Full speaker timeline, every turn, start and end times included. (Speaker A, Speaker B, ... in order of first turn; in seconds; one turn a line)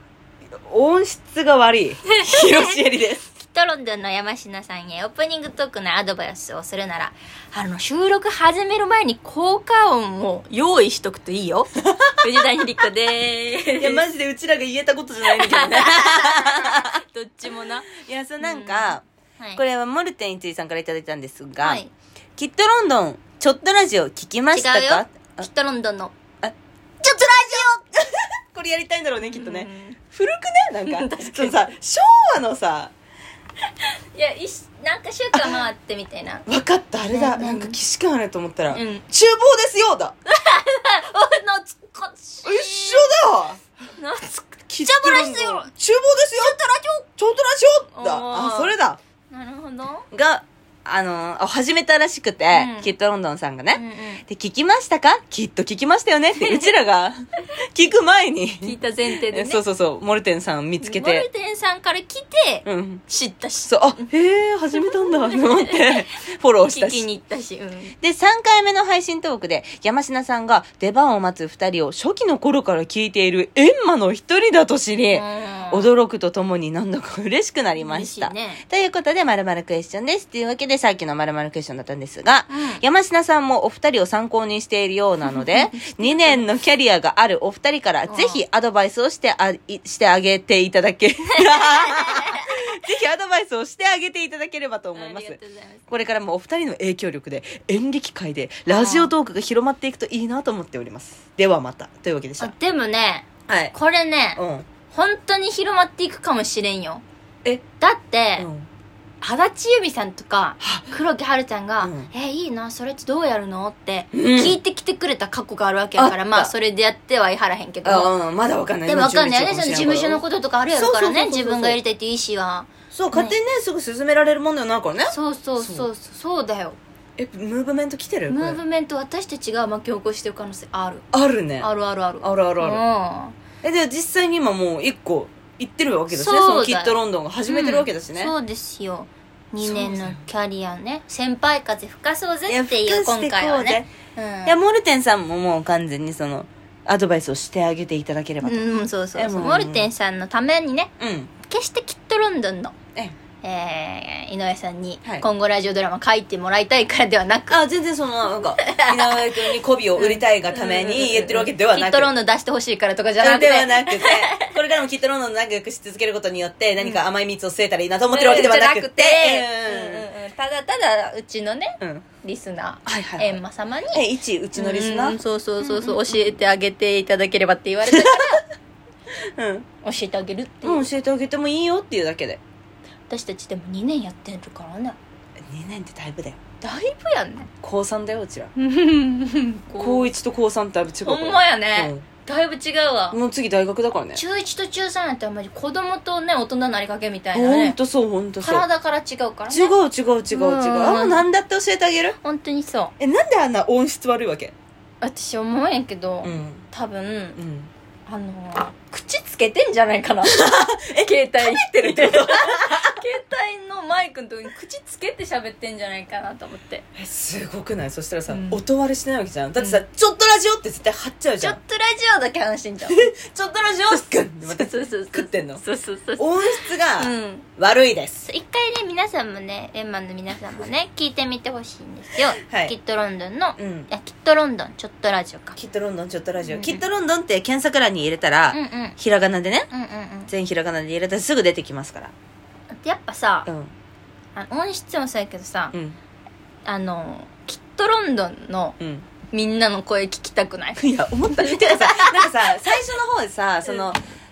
Speaker A: 0.6-3.2
Speaker B: 2.1-2.8
Speaker B: 3.4-11.7
Speaker A: 11.8-12.3
Speaker B: 12.2-14.0
Speaker A: 13.8-17.0
Speaker B: 15.2-19.6
Speaker A: 17.9-19.0
Speaker A: 19.6-21.8
Speaker B: 21.6-21.9
Speaker A: 22.4-25.5
Speaker B: 24.5-26.1
Speaker B: 27.0-27.8
Speaker A: 27.1-32.9
Speaker B: 29.2-30.0
Speaker B: 30.9-31.6
Speaker B: 34.1-36.4
Speaker A: 35.3-35.6
Speaker A: 36.5-40.1
Speaker B: 37.1-37.8
Speaker B: 38.7-39.0
Speaker B: 40.3-43.1
Speaker A: 42.4-43.6
Speaker B: 44.0-45.7
Speaker A: 44.7-46.6
Speaker B: 46.4-47.1
Speaker A: 47.2-49.0
Speaker B: 47.9-48.7
Speaker B: 49.3-50.1
Speaker A: 50.1-57.2
Speaker B: 52.5-52.9
Speaker B: 53.7-54.2
Speaker B: 56.3-56.7
Speaker A: 57.7-61.2
Speaker B: 58.6-59.6
Speaker B: 60.8-64.1
Speaker A: 62.6-63.0
Speaker A: 63.6-67.0
Speaker B: 64.7-66.0
Speaker B: 66.7-67.9
Speaker A: 68.0-102.5
Speaker B: 75.1-75.9
Speaker B: 77.8-78.6
Speaker B: 82.5-82.8
Speaker B: 85.2-86.4
Speaker B: 88.1-88.4
Speaker B: 91.4-92.5
Speaker B: 94.9-95.8
Speaker B: 98.7-99.1
Speaker B: 102.4-107.0
Speaker A: 103.5-103.7
Speaker A: 104.3-104.7
Speaker B: 107.8-108.5
Speaker A: 108.4-108.7
Speaker B: 109.2-118.1
Speaker A: 110.6-111.0
Speaker A: 111.8-112.1
Speaker A: 114.1-114.6
Speaker A: 116.0-116.5
Speaker A: 117.8-120.2
Speaker B: 118.9-123.3
Speaker A: 120.7-121.8
Speaker A: 122.9-125.9
Speaker B: 125.1-126.8
Speaker A: 127.2-128.6
Speaker B: 128.3-131.0
Speaker A: 131.1-131.7
Speaker B: 131.6-133.4
Speaker A: 132.2-132.8
Speaker A: 133.6-138.3
Speaker B: 136.1-136.9
Speaker B: 137.5-144.6
Speaker A: 139.6-140.2
Speaker A: 142.5-143.9
Speaker A: 144.4-149.9
Speaker B: 148.4-152.7
Speaker A: 151.0-151.3
Speaker B: 153.4-157.6
Speaker A: 157.5-162.1
Speaker B: 158.6-164.5
Speaker A: 163.2-170.1
Speaker B: 168.1-174.0
Speaker A: 171.8-172.0
Speaker A: 172.8-173.4
Speaker A: 173.9-176.3
Speaker B: 174.5-178.4
Speaker A: 177.9-178.2
Speaker A: 179.4-179.7
Speaker B: 179.8-180.9
Speaker A: 180.6-182.4
Speaker B: 183.1-185.0
Speaker A: 185.5-186.4
Speaker B: 186.6-187.5
Speaker A: 187.6-188.5
Speaker B: 188.6-190.1
Speaker A: 189.8-192.0
Speaker B: 191.0-193.2
Speaker A: 193.1-194.2
Speaker B: 194.1-197.8
Speaker A: 197.3-198.7
Speaker B: 198.4-199.7
Speaker A: 199.5-202.2
Speaker B: 200.3-201.2
Speaker B: 202.2-202.9
Speaker A: 203.0-204.5
Speaker B: 205.0-207.4
Speaker A: 206.2-206.7
Speaker A: 207.3-207.7
Speaker B: 208.1-216.8
Speaker A: 210.2-212.9
Speaker A: 216.9-221.6
Speaker B: 218.3-218.6
Speaker B: 221.4-223.1
Speaker A: 222.9-225.6
Speaker B: 223.9-227.5
Speaker A: 226.2-228.3
Speaker B: 228.3-235.6
Speaker A: 232.4-232.7
Speaker A: 233.6-233.9
Speaker A: 235.6-239.7
Speaker B: 236.4-236.8
Speaker B: 238.5-238.9
Speaker B: 239.7-240.3
Speaker A: 240.3-242.1
Speaker B: 242.8-243.5
Speaker A: 243.5-243.7
Speaker B: 244.3-245.7
Speaker B: 246.6-248.8
Speaker A: 248.8-249.1
Speaker B: 249.3-252.7
Speaker A: 250.8-254.0